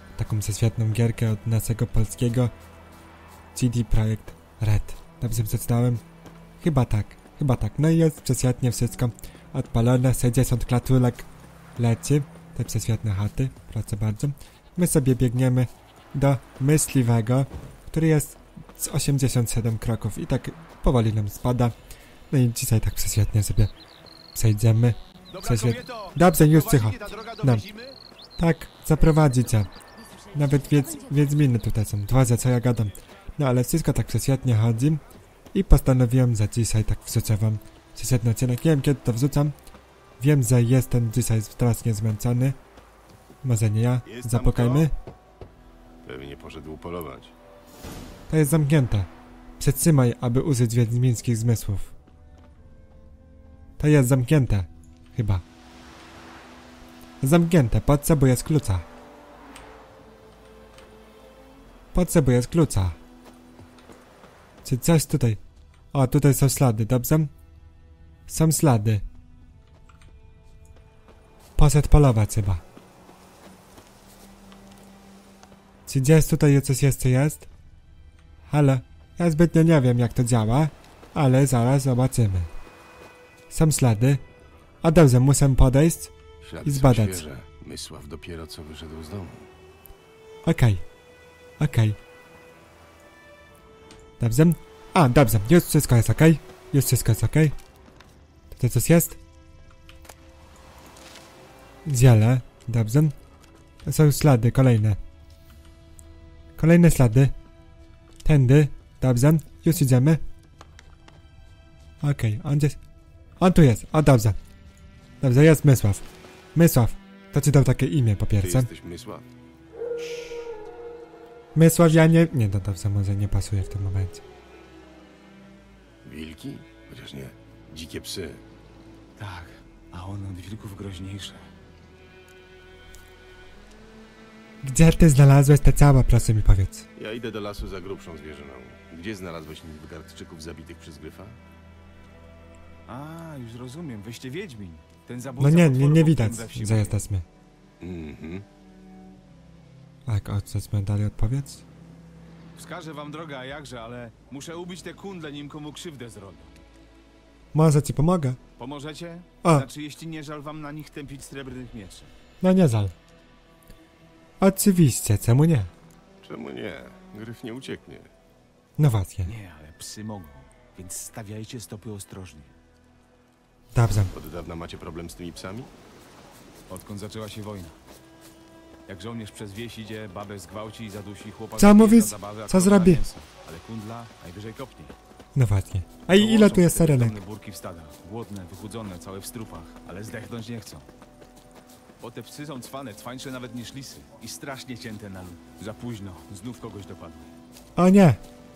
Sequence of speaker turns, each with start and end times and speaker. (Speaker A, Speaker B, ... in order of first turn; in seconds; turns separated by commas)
Speaker A: 0.1-2.5, Speaker A: 3.5-6.0, Speaker A: 6.6-21.8, Speaker A: 22.3-23.7, Speaker A: 24.3-27.6, Speaker B: 25.3-28.0, Speaker A: 28.4-29.7, Speaker A: 30.3-35.0, Speaker A: 35.5-39.5, Speaker A: 40.2-42.6, Speaker A: 43.4-44.9, Speaker C: 44.0-44.9, Speaker C: 46.0-47.3, Speaker A: 48.3-51.9, Speaker A: 53.8-55.4, Speaker A: 57.2-58.9, Speaker A: 61.9-63.0, Speaker A: 64.6-65.4, Speaker A: 65.9-67.3, Speaker A: 68.3-69.0, Speaker A: 71.5-72.6, Speaker A: 75.8-77.5, Speaker A: 78.5-82.5, Speaker A: 83.5-84.2, Speaker A: 84.8-86.1, Speaker C: 86.4-89.5, Speaker A: 86.6-87.2, Speaker A: 90.5-90.8, Speaker A: 91.6-92.0, Speaker A: 94.2-97.5, Speaker A: 98.5-99.2, Speaker A: 101.8-103.1, Speaker A: 103.8-105.0, Speaker A: 106.6-107.3, Speaker A: 108.2-110.2, Speaker A: 112.0-112.8, Speaker A: 113.4-114.4, Speaker A: 115.2-118.7, Speaker C: 118.4-119.3, Speaker A: 121.5-124.2, Speaker C: 126.0-128.4, Speaker B: 129.2-131.5, Speaker A: 134.6-136.8, Speaker C: 136.9-141.4, Speaker B: 142.9-147.0, Speaker A: 145.4-147.2, Speaker C: 147.8-148.4, Speaker A: 150.1-151.6, Speaker B: 152.5-156.6, Speaker A: 157.5-158.4, Speaker B: 158.6-162.1, Speaker A: 162.4-162.9, Speaker A: 164.4-165.7, Speaker C: 166.2-168.1, Speaker A: 168.8-169.3, Speaker B: 169.2-172.5, Speaker A: 173.7-174.1, Speaker C: 174.1-175.7, Speaker B: 176.7-177.8, Speaker B: 178.9-184.9, Speaker A: 181.6-183.0, Speaker A: 185.3-187.1, Speaker B: 186.1-190.9, Speaker B: 192.0-197.3, Speaker A: 197.8-198.2